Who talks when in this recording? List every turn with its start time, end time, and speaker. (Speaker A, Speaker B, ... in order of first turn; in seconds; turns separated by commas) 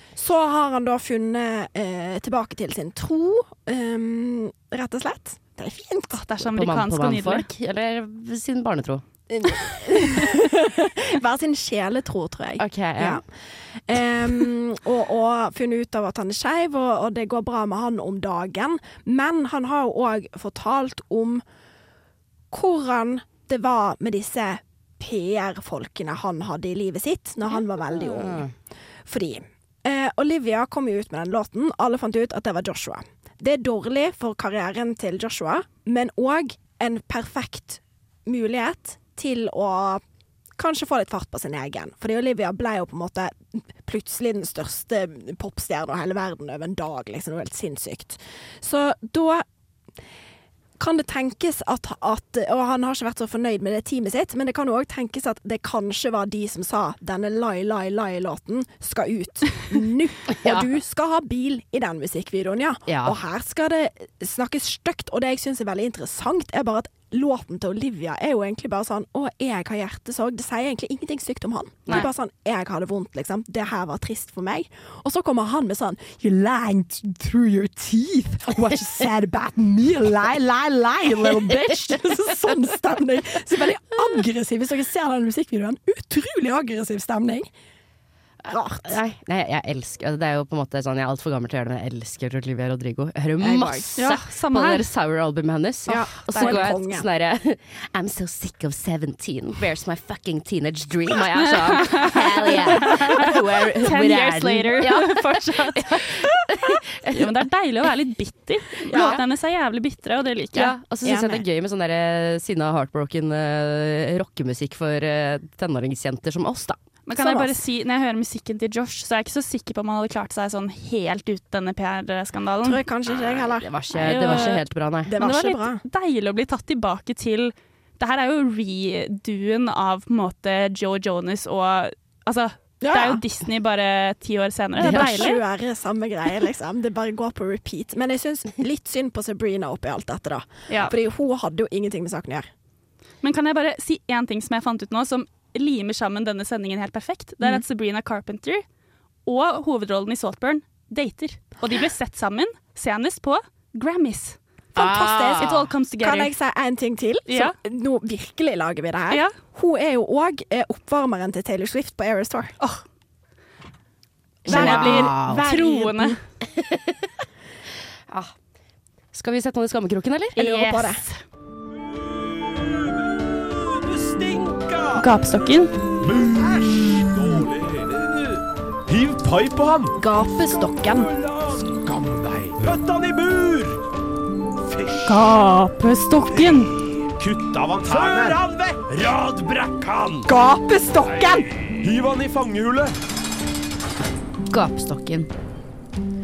Speaker A: 0.1-6.2, Speaker B: 6.1-7.5, Speaker C: 6.5-9.0, Speaker A: 9.3-21.4, Speaker C: 12.6-13.2, Speaker A: 22.5-28.5, Speaker C: 27.9-28.5, Speaker A: 29.0-40.0, Speaker A: 40.6-49.4, Speaker A: 50.8-87.5, Speaker C: 60.3-60.7, Speaker C: 62.9-63.2, Speaker A: 88.5-89.0, Speaker C: 88.8-107.3, Speaker A: 93.4-93.9, Speaker B: 94.0-94.9, Speaker A: 95.9-97.1, Speaker B: 96.3-96.7, Speaker B: 101.8-103.3, Speaker B: 103.8-106.3, Speaker B: 107.1-110.7, Speaker A: 108.9-109.2, Speaker C: 110.5-116.8, Speaker A: 111.0-111.4, Speaker B: 117.1-122.8, Speaker A: 117.1-117.6, Speaker A: 122.6-124.5, Speaker C: 123.5-125.1, Speaker B: 124.0-124.6, Speaker A: 125.0-125.8, Speaker B: 125.2-135.4, Speaker A: 132.8-133.2, Speaker A: 134.8-142.5, Speaker C: 134.9-135.2, Speaker B: 140.7-140.9, Speaker B: 143.2-148.6, Speaker B: 149.2-156.3, Speaker A: 154.8-162.6, Speaker C: 154.8-155.6, Speaker B: 157.3-157.6, Speaker C: 164.4-165.4, Speaker A: 164.4-166.2, Speaker B: 164.4-166.2, Speaker C: 166.4-167.1, Speaker C: 168.1-168.3, Speaker C: 169.1-170.4, Speaker B: 170.4-171.2, Speaker A: 170.4-171.0, Speaker D: 172.4-175.0, Speaker B: 174.9-175.7, Speaker D: 176.0-179.9, Speaker A: 180.0-181.1, Speaker D: 181.2-183.8, Speaker D: 184.7-185.3, Speaker B: 185.1-186.7, Speaker D: 186.3-190.3, Speaker A: 190.3-191.4, Speaker D: 191.0-192.9, Speaker C: 194.5-195.3